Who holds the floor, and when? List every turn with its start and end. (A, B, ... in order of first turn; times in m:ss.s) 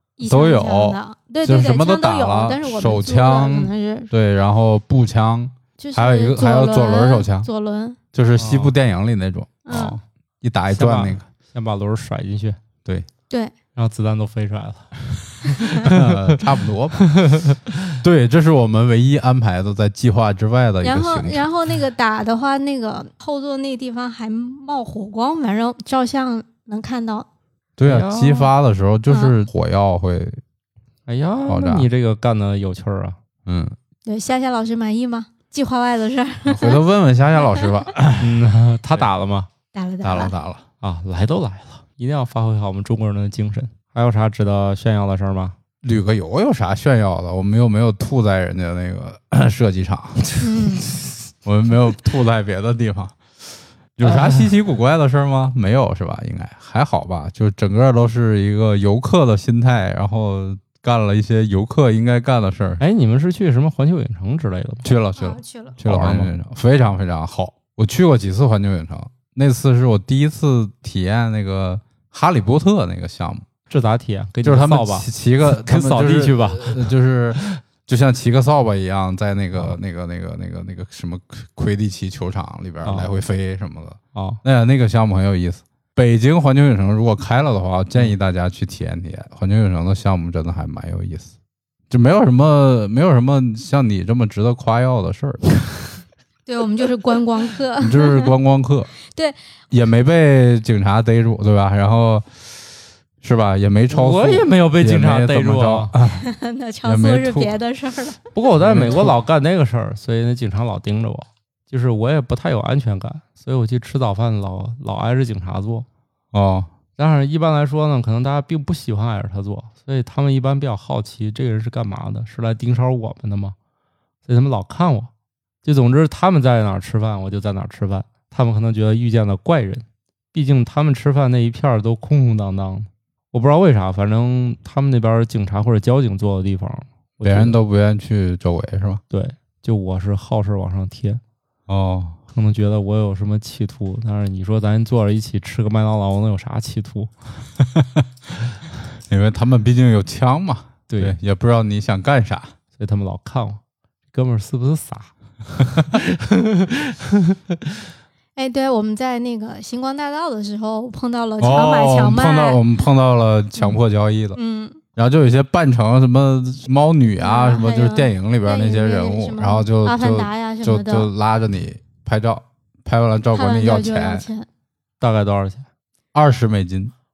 0:00.2-0:04.1 A
0:00.2-0:07.5 B
0:05.8-0:08.0 A
0:08.1-0:11.2 B
0:08.3-0:08.7 C
0:09.6-0:10.0 A
0:10.7-0:12.6 C
0:13.7-0:16.4 C
0:15.8-0:17.1 B
0:17.0-0:17.7 C
0:18.0-0:21.5 B
0:20.8-0:27.3 A
0:27.8-0:30.4 B
0:27.8-0:28.5 C
0:29.1-0:29.3 A
0:31.1-0:33.2 C
0:31.5-0:31.9 B
0:33.4-0:33.8 B
0:34.0-0:36.8 A
0:36.4-0:38.4 B
0:37.5-0:37.8 A
0:38.2-0:39.5 C
0:39.7-0:40.3 A
0:40.0-0:40.6 B
0:40.8-0:45.6 C
0:45.8-0:50.4 B
0:50.4-0:50.8 A
0:51.4-0:53.2 B
0:54.0-1:02.8 B
0:54.0-0:54.5 C
1:02.8-1:04.9 C
1:04.8-1:13.4 B
1:05.2-1:05.8 A
1:05.8-1:06.3 C
1:13.7-1:17.6 C
1:14.4-1:31.3 B
1:22.8-1:23.1 C
1:24.1-1:24.4 C
1:31.9-1:35.6 B
1:36.4-1:38.3 A
1:37.8-1:38.9 B
1:39.1-1:39.4 A
1:39.7-1:42.4 B
1:43.2-1:46.3 B
1:43.9-1:45.9 C
1:46.1-1:49.0 A
1:46.8-1:47.5 B
1:48.3-1:55.8 C
1:48.6-1:49.1 B
1:56.3-1:56.7 B
1:57.0-2:03.6 C
2:04.2-2:05.1 C
2:05.6-2:17.6 C
2:17.2-2:19.0 B
2:19.1-2:21.2 C
2:21.7-2:22.2 B
2:22.3-2:27.1 C
2:27.6-2:28.1 B
2:29.0-2:32.5 B
2:30.9-2:31.2 C
2:32.8-2:33.6 C
2:34.1-2:37.4 C
2:38.4-2:42.7 A
2:41.4-2:44.4 B
2:44.4-2:44.8 A
2:45.0-2:54.2 B
2:47.2-2:51.1 A
2:53.3-2:54.5 A
2:55.0-2:55.7 C
2:56.1-2:56.9 B